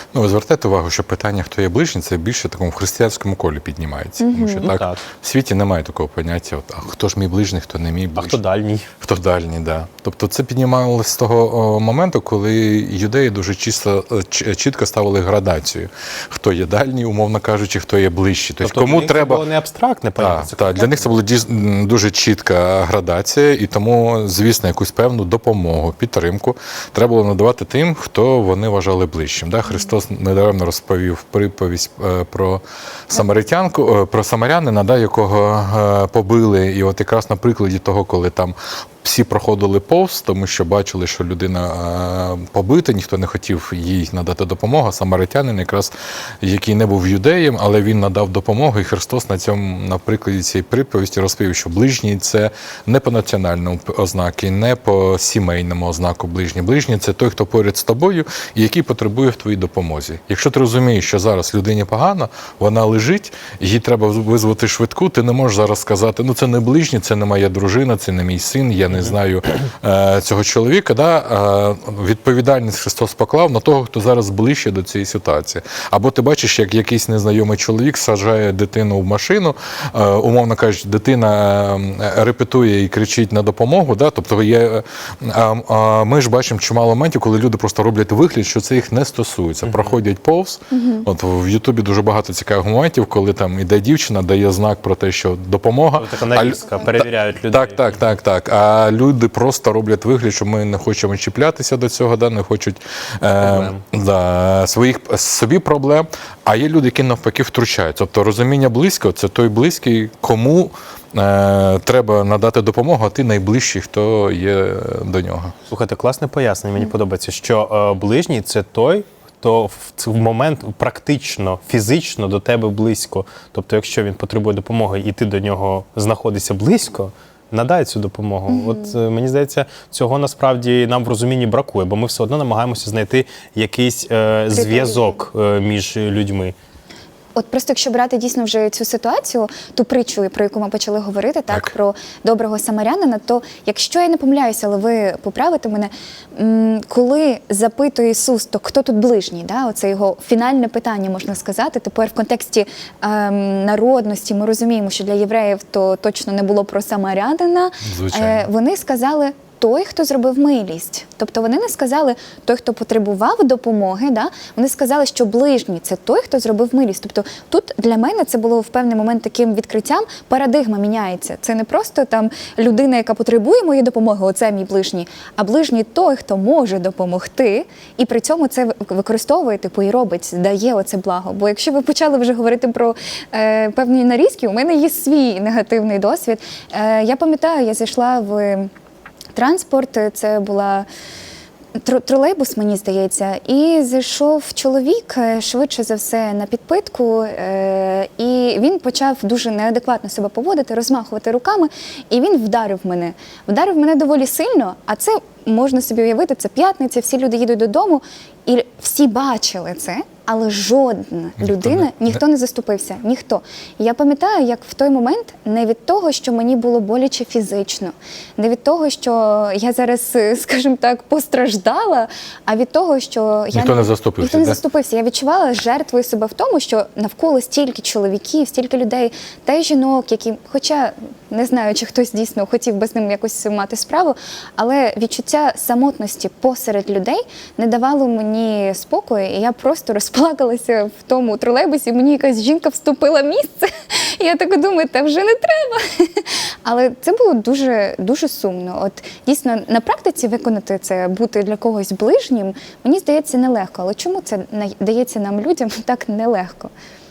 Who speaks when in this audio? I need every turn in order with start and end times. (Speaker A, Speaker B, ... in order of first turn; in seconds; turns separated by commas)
Speaker A: 0.1-8.4, Speaker B: 4.2-4.7, Speaker C: 4.6-5.0, Speaker C: 8.2-8.9, Speaker A: 9.0-19.5, Speaker C: 18.6-21.1, Speaker A: 20.2-115.5, Speaker C: 89.7-90.0, Speaker B: 90.7-91.1, Speaker C: 96.0-98.0, Speaker C: 103.4-103.8, Speaker C: 115.7-136.6, Speaker B: 128.5-128.9, Speaker B: 134.5-135.2, Speaker B: 137.3-188.7, Speaker A: 157.8-158.5, Speaker B: 189.3-190.9, Speaker B: 191.8-256.7, Speaker A: 211.4-212.2, Speaker A: 223.5-224.6